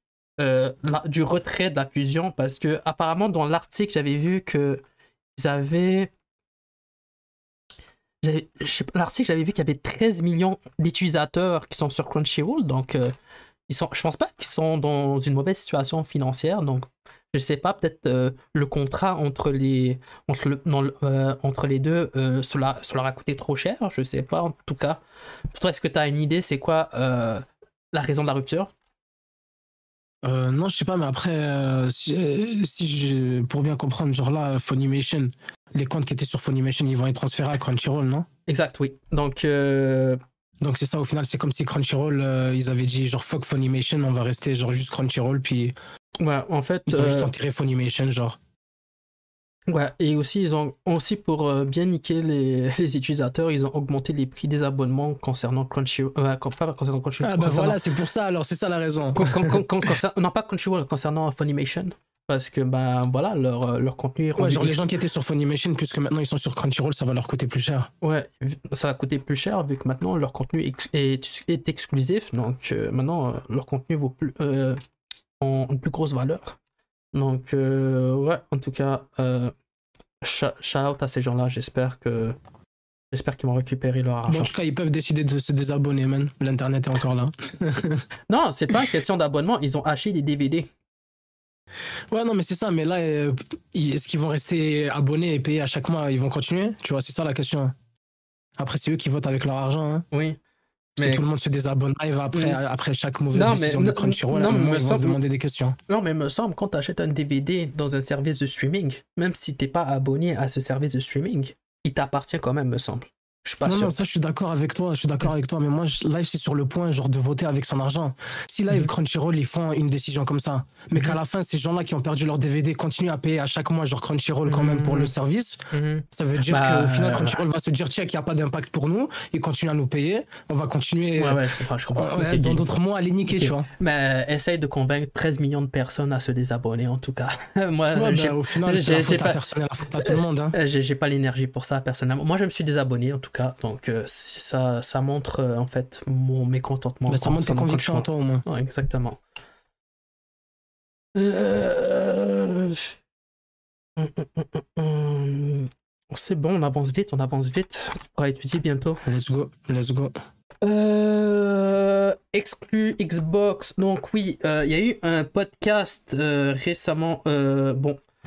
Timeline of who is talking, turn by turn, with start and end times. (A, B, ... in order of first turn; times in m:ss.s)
0:00.4-0:04.8 A
0:05.4-0:06.1 A
0:08.2-0:13.1 A
0:13.7-0:25.0 A
0:25.5-0:28.7 A
0:30.2-0:38.3 B
0:38.5-0:40.2 A
0:40.6-0:45.7 B
0:46.2-0:47.3 A
0:46.9-0:48.4 B
0:49.7-0:57.8 A
0:57.2-0:59.9 B
0:59.2-1:04.8 A
1:04.4-1:07.9 B
1:08.0-1:14.8 A
1:15.4-1:16.6 A
1:17.1-1:19.5 A
1:20.2-1:22.4 A
1:23.1-1:24.5 A
1:24.2-1:28.0 B
1:28.3-1:30.6 A
1:32.1-1:37.7 B
1:38.6-1:40.0 B
1:40.1-1:40.4 A
1:41.0-1:45.8 B
1:42.3-1:42.6 A
1:43.3-1:45.2 A
1:45.9-1:54.0 A
1:53.6-2:05.6 B
2:04.5-2:05.1 A
2:05.7-2:07.4 A
2:06.1-2:13.7 B
2:11.2-2:12.7 A
2:13.3-2:19.4 A
2:17.9-2:20.5 B
2:20.0-2:29.2 A
2:27.1-2:28.4 B
2:31.1-2:32.9 A
2:34.0-2:39.0 A
2:39.0-2:40.1 B
2:40.6-2:48.0 A